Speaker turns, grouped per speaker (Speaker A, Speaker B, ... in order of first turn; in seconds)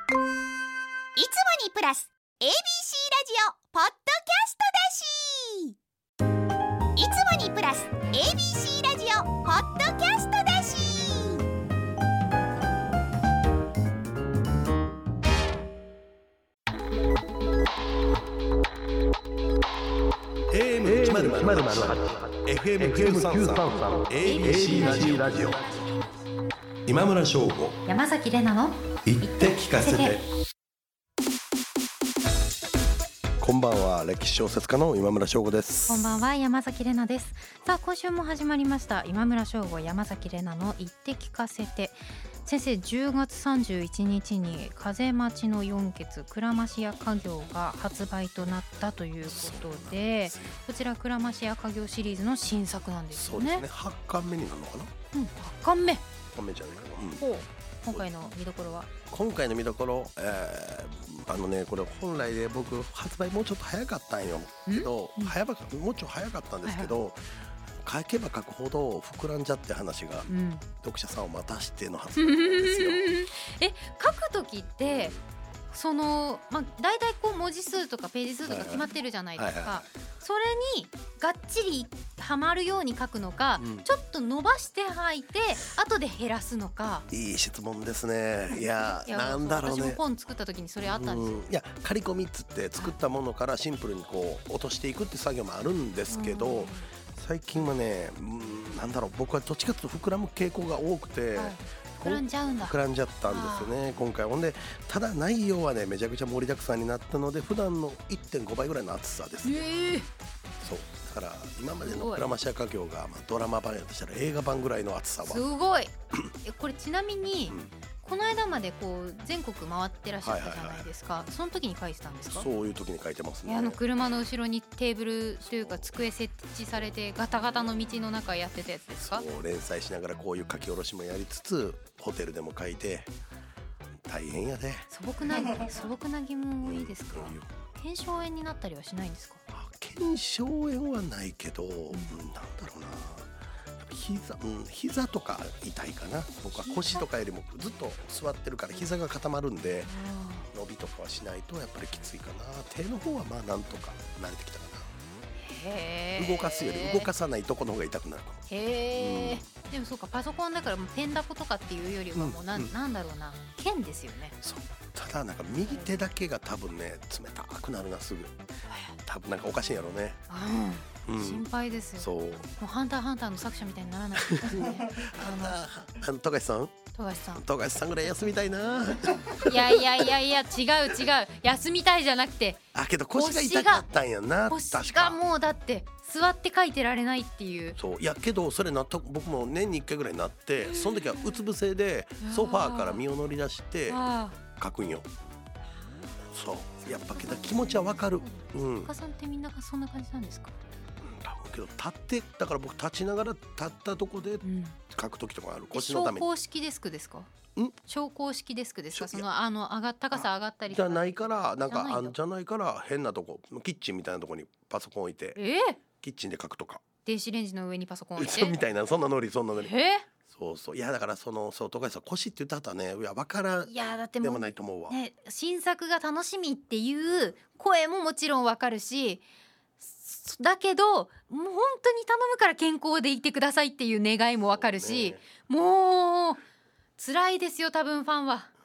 Speaker A: 1.2-5.8, 7.0-11.5
Speaker B: 20.5-25.7, 26.9-27.8, 29.1-30.2, 33.4-36.1, 49.2-50.6, 53.1-54.9, 56.3-57.2, 59.1-70.3, 70.8-73.1, 74.9-75.2, 78.5-79.8, 83.6-83.9, 87.1-90.0, 90.8-109.7, 110.6-115.5, 120.2-120.9, 122.3-123.8, 125.5-126.0, 128.9-133.1, 134.0-134.9, 136.6-137.5, 139.5-149.9, 150.5-154.9, 156.2-158.4, 158.9-159.4, 162.2-162.7, 164.4-168.3, 169.0-170.2, 171.1-171.4, 172.0-172.5, 174.2-176.8, 177.3-180.1, 182.7-185.2, 187.8-195.1, 196.3-198.9, 201.0-206.3, 208.9-209.3, 210.1-215.4, 216.0-216.8, 218.2-219.7, 220.3-225.0, 227.0-227.3, 234.5-235.2
Speaker C: 24.2-25.5, 27.9-30.2, 35.9-53.6, 55.1-56.0, 57.2-58.9, 64.7-65.3, 66.7-66.9, 70.3-70.7, 72.2-75.2, 75.7-87.1, 88.6-91.5, 96.1-96.9, 101.3-102.8, 103.3-103.8, 109.4-110.1, 111.8-112.3, 115.2-122.5, 123.5-129.2, 134.9-139.4, 141.9-142.2, 146.5-147.1, 149.8-150.5, 155.4-157.1, 158.5-164.4, 165.7-166.0, 168.7-169.0, 170.3-175.7, 176.9-177.4, 179.4-182.6, 183.1-183.9, 184.5-187.8, 190.6-191.5, 192.2-193.0, 193.9-194.4, 196.8-200.6, 204.4-204.8, 205.7-207.3, 207.8-212.2, 215.4-215.8, 217.1-218.6, 219.6-220.1, 223.7-229.2, 229.8-236.4, 237.0-238.5